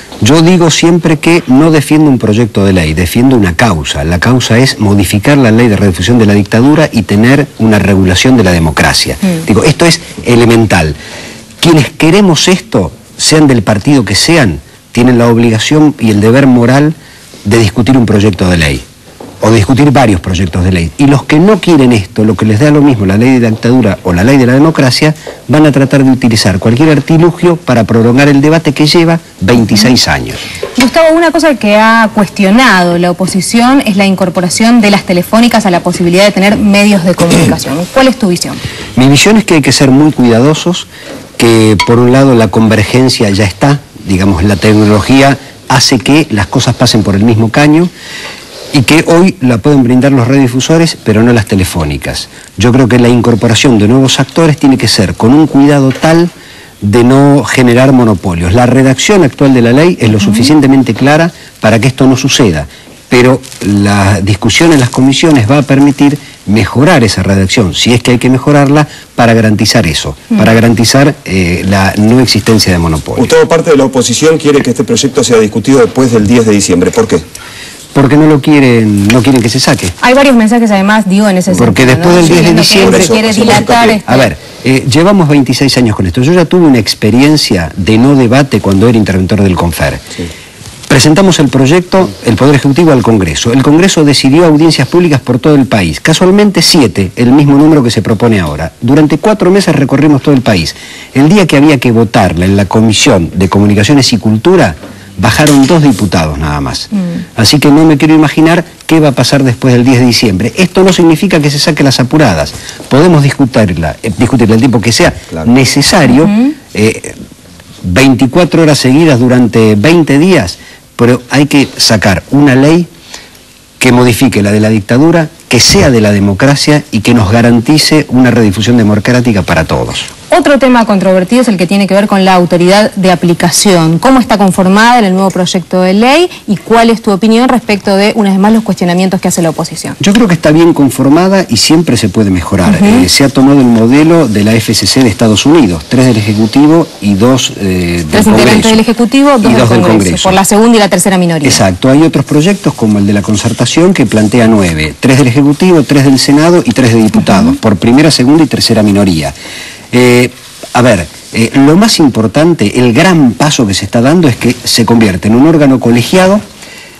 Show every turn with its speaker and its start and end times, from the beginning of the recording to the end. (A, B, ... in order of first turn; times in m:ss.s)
0:00.2-0:11.0 A
0:11.6-0:18.8 A
0:19.4-0:30.4 A
0:30.8-0:38.6 B
0:39.0-0:47.9 A
0:48.7-1:13.3 A
1:00.2-1:00.5 B
1:13.2-1:17.2 C
1:17.9-1:19.9 A
1:20.0-1:24.3 B
1:21.5-1:30.0 A
1:22.2-1:24.0 C
1:30.9-1:57.2 A
1:56.2-1:56.4 B
1:57.8-2:02.9 A
2:03.8-2:10.1 A
2:10.3-2:20.0 B
2:20.0-2:28.8 A
2:22.7-2:23.1 B
2:28.1-2:31.6 B
2:29.4-2:30.4 A
2:31.4-2:39.3 A
2:37.2-2:37.5 B
2:39.9-2:46.4 A